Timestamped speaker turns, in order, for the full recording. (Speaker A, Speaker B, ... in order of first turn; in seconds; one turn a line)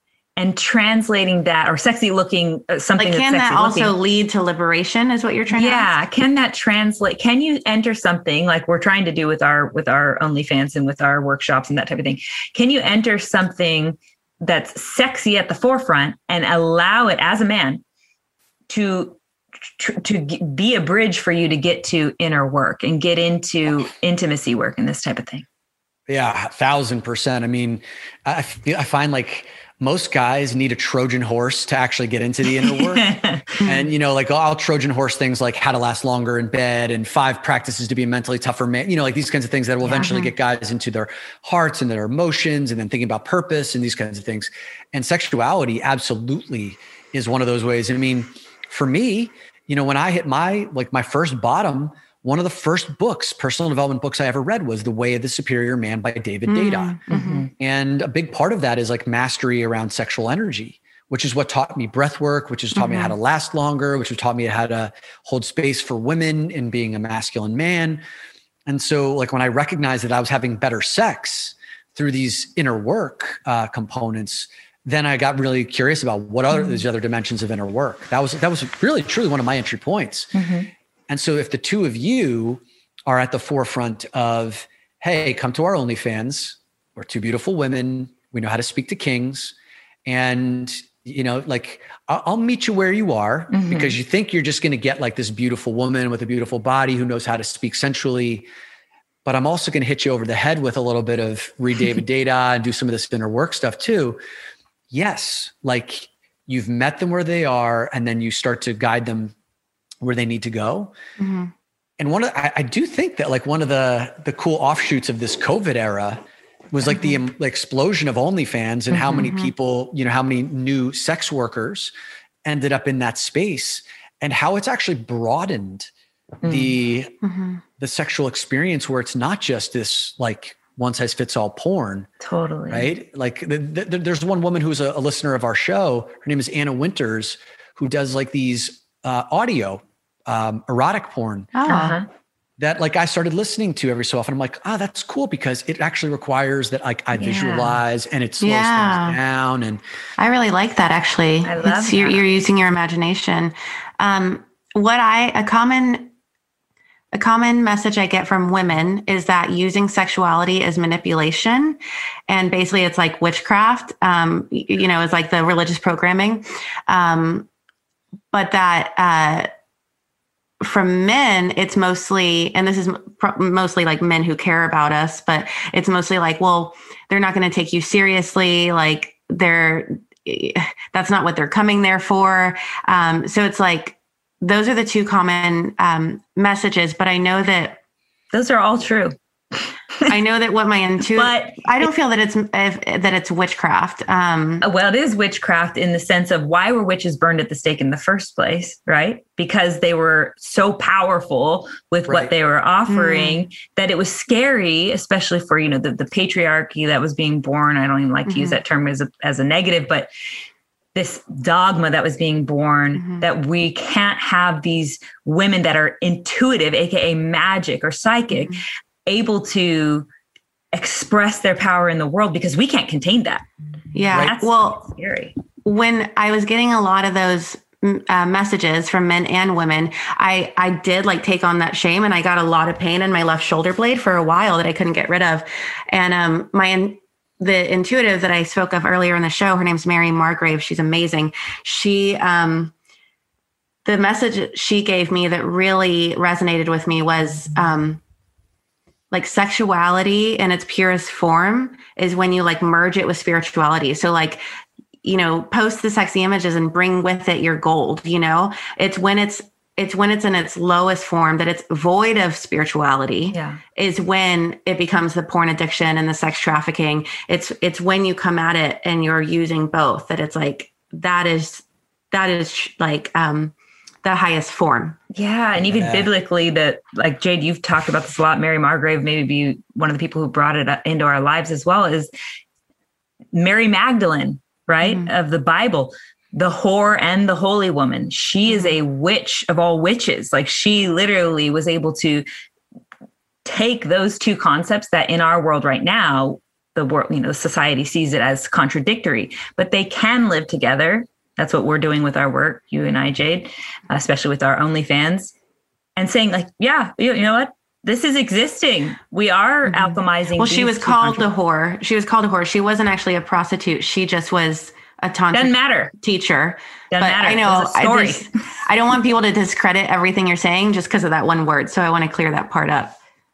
Speaker A: 0.4-3.9
Speaker B: 3.0-5.9
Speaker A: 5.5-17.8
Speaker A: 18.7-19.2
Speaker A: 19.8-25.4
Speaker C: 26.1-33.1
Speaker A: 32.6-33.6
Speaker C: 33.6-57.0
Speaker B: 39.9-40.3
Speaker B: 56.5-57.5
Speaker A: 57.1-57.5
Speaker C: 57.6-68.0
Speaker B: 62.7-63.1
Speaker C: 68.7-80.3
Speaker A: 80.3-80.7
Speaker C: 81.1-89.5
Speaker C: 90.0-98.5
Speaker A: 93.5-94.0
Speaker C: 99.2-104.2
Speaker C: 104.9-109.3
Speaker C: 110.0-110.9
Speaker B: 111.2-111.5
Speaker C: 112.0-121.9
Speaker A: 118.9-119.2
Speaker B: 119.1-119.5
Speaker C: 122.4-125.9
Speaker A: 126.4-126.7
Speaker C: 126.4-127.1
Speaker B: 127.2-127.6
Speaker C: 127.8-132.1
Speaker A: 132.2-132.9
Speaker C: 132.7-141.6
Speaker B: 141.5-142.0
Speaker A: 141.7-142.1
Speaker C: 142.6-149.8
Speaker A: 147.2-147.8
Speaker B: 148.4-149.2
Speaker B: 150.2-156.1
Speaker A: 151.4-152.2
Speaker B: 157.1-167.5
Speaker B: 168.3-169.5
Speaker B: 170.6-187.8
Speaker A: 188.3-189.1
Speaker B: 190.1-194.6
Speaker A: 191.1-191.9
Speaker A: 194.6-210.1
Speaker C: 202.1-202.3
Speaker B: 202.9-203.4
Speaker B: 208.3-208.6
Speaker A: 210.9-220.1
Speaker B: 213.0-213.2
Speaker B: 218.3-218.6
Speaker A: 220.7-223.4
Speaker B: 223.9-224.8
Speaker A: 224.1-225.3
Speaker B: 225.6-242.7
Speaker B: 243.8-248.0
Speaker B: 249.1-254.4
Speaker B: 255.0-273.5
Speaker A: 263.3-263.6
Speaker B: 274.0-275.0
Speaker A: 275.1-282.1
Speaker C: 275.6-276.1
Speaker A: 283.3-292.2
Speaker B: 284.8-285.1
Speaker B: 288.5-288.8
Speaker A: 293.4-305.3
Speaker A: 305.9-311.2
Speaker B: 309.6-322.9
Speaker A: 315.3-315.9
Speaker A: 316.9-318.3